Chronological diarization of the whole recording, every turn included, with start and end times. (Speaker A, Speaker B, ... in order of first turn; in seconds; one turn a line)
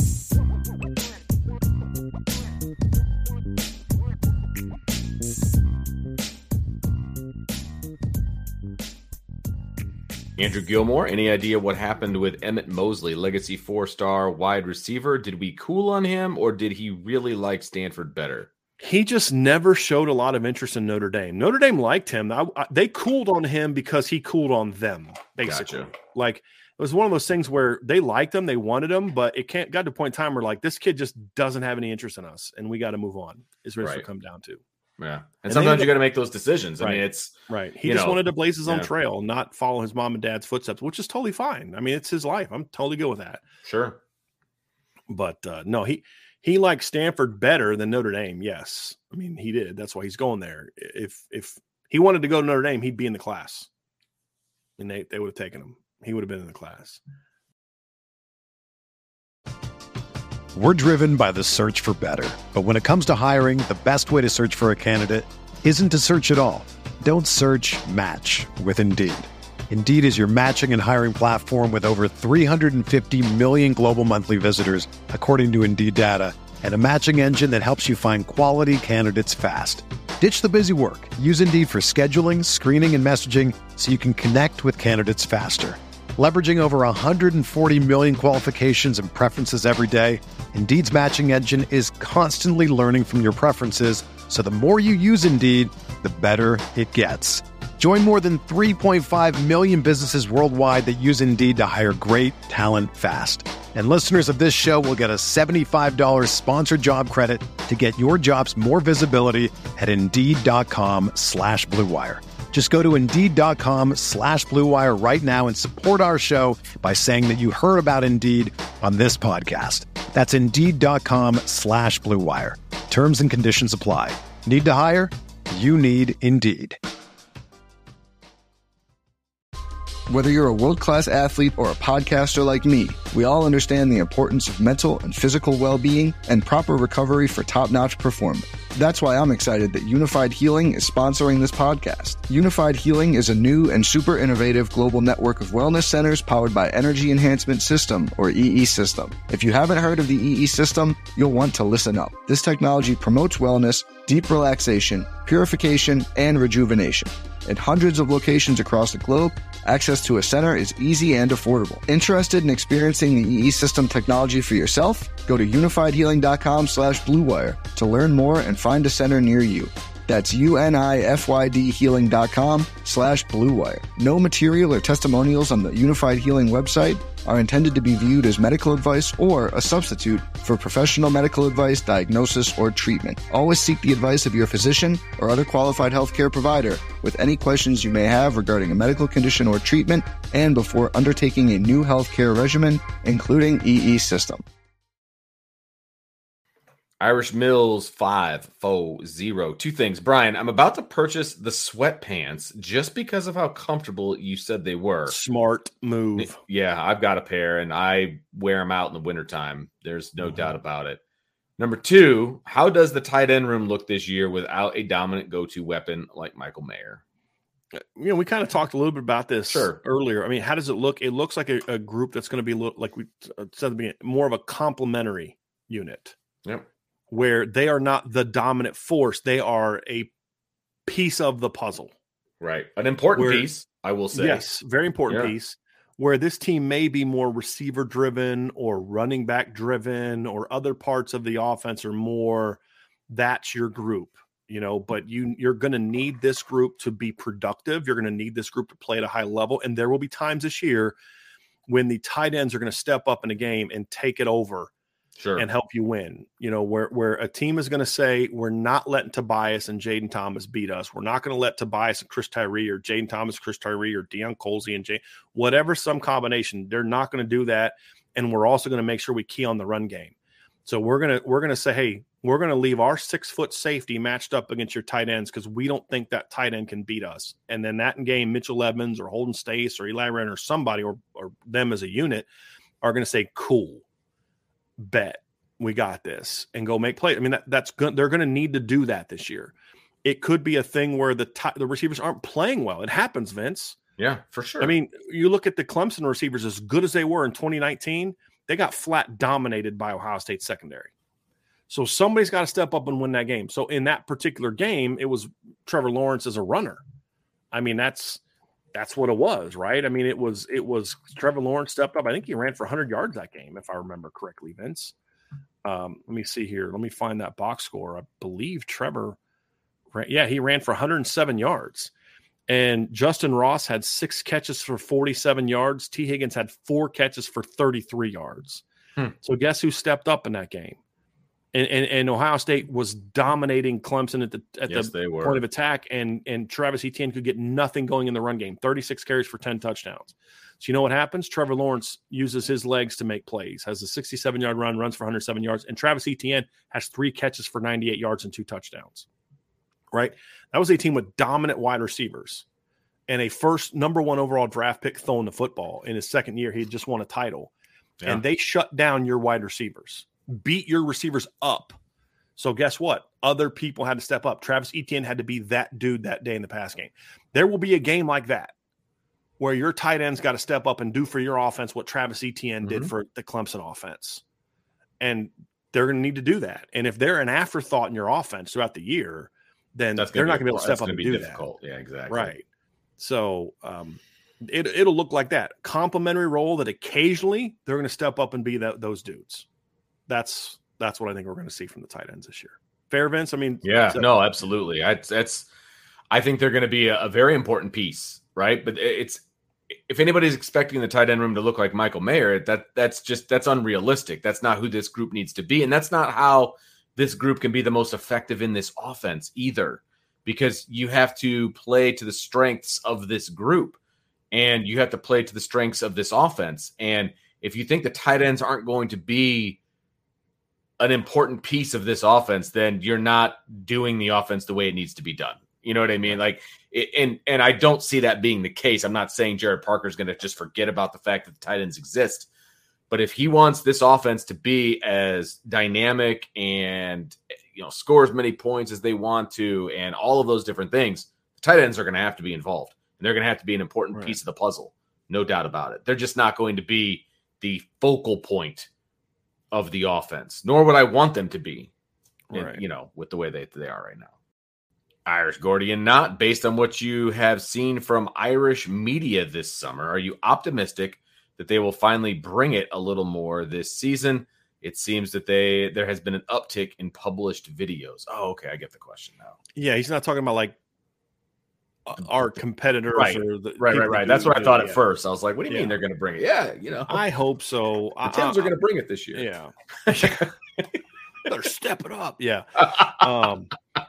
Speaker A: 10.4-18.5
Speaker B: 18.8-34.6
Speaker A: 25.4-25.9
Speaker A: 35.0-38.9
Speaker B: 35.5-35.9
Speaker B: 36.8-43.4
Speaker A: 43.6-44.0
Speaker B: 45.1-53.7
Speaker B: 54.8-57.0
Speaker C: 60.5-126.8
Speaker D: 130.1-194.4
Speaker A: 197.0-205.2
Speaker B: 205.1-206.4
Speaker A: 206.2-211.0
Speaker A: 211.6-217.0
Speaker B: 217.8-226.2
Speaker A: 219.5-219.8
Speaker B: 227.1-230.1
Speaker B: 230.9-231.9
Speaker A: 232.4-234.4
Speaker B: 233.2-233.5
Speaker B: 234.1-250.9
Speaker B: 251.7-254.7
Speaker A: 255.2-255.5
Speaker B: 255.4-270.1
Speaker B: 270.7-282.3
Speaker B: 282.8-283.8
Speaker B: 284.8-289.5
Speaker B: 290.0-293.8
Speaker A: 294.0-294.7
Speaker B: 294.6-300.9
Speaker B: 301.7-306.8
Speaker B: 307.5-308.2
Speaker B: 308.7-314.9
Speaker B: 315.6-319.2
Speaker B: 319.9-321.9
Speaker B: 322.5-328.6
Speaker B: 329.2-330.8
Speaker B: 331.5-349.1
Speaker A: 334.7-335.4
Speaker B: 349.9-352.4
Speaker B: 353.1-357.5
Speaker B: 358.1-361.8
Speaker B: 362.4-368.5
Speaker B: 369.4-374.2
Speaker A: 372.6-372.9
Speaker B: 375.0-381.4
Speaker A: 380.0-382.4
Speaker B: 382.1-382.4
Speaker B: 383.0-389.5
Speaker B: 390.1-394.1
Speaker A: 393.6-395.5
Speaker A: 396.1-413.8
Speaker A: 414.3-419.6
Speaker A: 420.8-432.3
Speaker A: 432.9-448.7
Speaker A: 449.5-451.7
Speaker B: 452.3-452.6
Speaker A: 452.3-454.1
Speaker A: 455.1-469.4
Speaker B: 469.6-470.6
Speaker B: 471.9-474.8
Speaker A: 472.9-477.0
Speaker B: 475.5-475.8
Speaker B: 476.9-478.5
Speaker A: 478.0-479.3
Speaker B: 479.1-480.3
Speaker A: 479.9-480.8
Speaker B: 481.2-483.5
Speaker A: 482.6-483.1